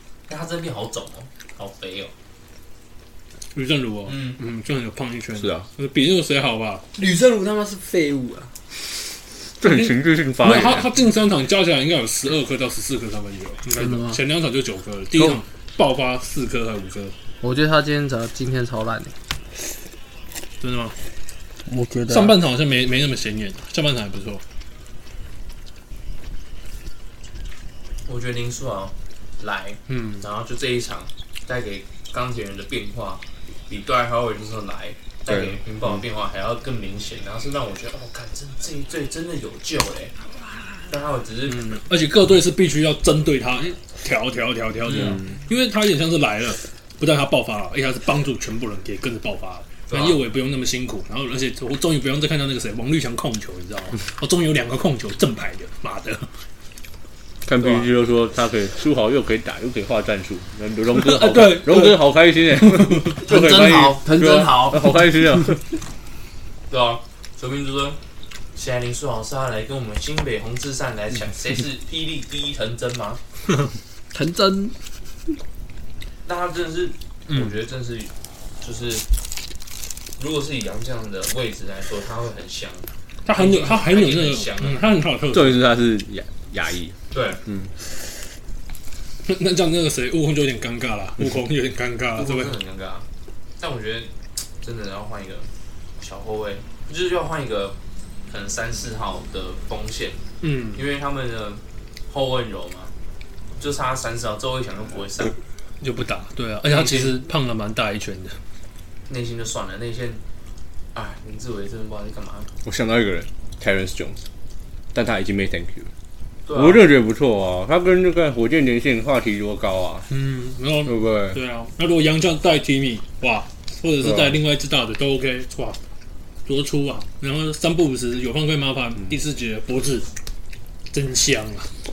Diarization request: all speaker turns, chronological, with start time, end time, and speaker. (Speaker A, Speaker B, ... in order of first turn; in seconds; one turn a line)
Speaker A: 0.3-2.1
Speaker B: 3.5-6.8
Speaker A: 4.1-4.4
Speaker C: 5.3-5.7
Speaker D: 6.9-8.6
Speaker C: 9.6-11.0
Speaker B: 9.7-17.1
Speaker D: 13.8-14.2
Speaker D: 17.4-19.1
Speaker B: 20.6-21.0
Speaker D: 21.7-22.4
Speaker B: 22.1-24.4
Speaker A: 28.1-40.2
Speaker B: 29.9-30.2
Speaker C: 35.3-35.6
Speaker A: 40.9-41.8
Speaker B: 41.5-56.3
Speaker A: 44.9-45.2
Speaker A: 49.9-50.2
Speaker C: 57.5-65.6
Speaker A: 57.6-57.9
Speaker B: 60.9-62.0
Speaker B: 62.6-63.2
Speaker A: 63.2-64.9
Speaker A: 66.7-68.0
Speaker A: 68.5-73.2
Speaker D: 74.1-74.8
Speaker A: 76.2-79.1
Speaker A: 80.2-84.9
Speaker B: 83.2-85.6
Speaker C: 85.3-87.7
Speaker A: 87.1-87.4
Speaker B: 89.2-92.5
Speaker A: 92.2-93.1
Speaker A: 93.6-95.5
Speaker A: 96.0-97.8
Speaker A: 98.3-100.2
Speaker B: 100.4-100.8
Speaker A: 100.7-102.9
Speaker A: 103.6-105.4
Speaker B: 105.8-108.4
Speaker A: 106.7-107.1
Speaker A: 109.1-110.2
Speaker A: 110.9-112.5
Speaker C: 112.6-114.2
Speaker C: 114.9-115.9
Speaker A: 116.5-116.9
Speaker C: 116.5-120.1
Speaker B: 120.1-125.8
Speaker C: 120.8-121.4
Speaker C: 124.0-124.4
Speaker B: 126.5-130.1
Speaker B: 130.9-131.7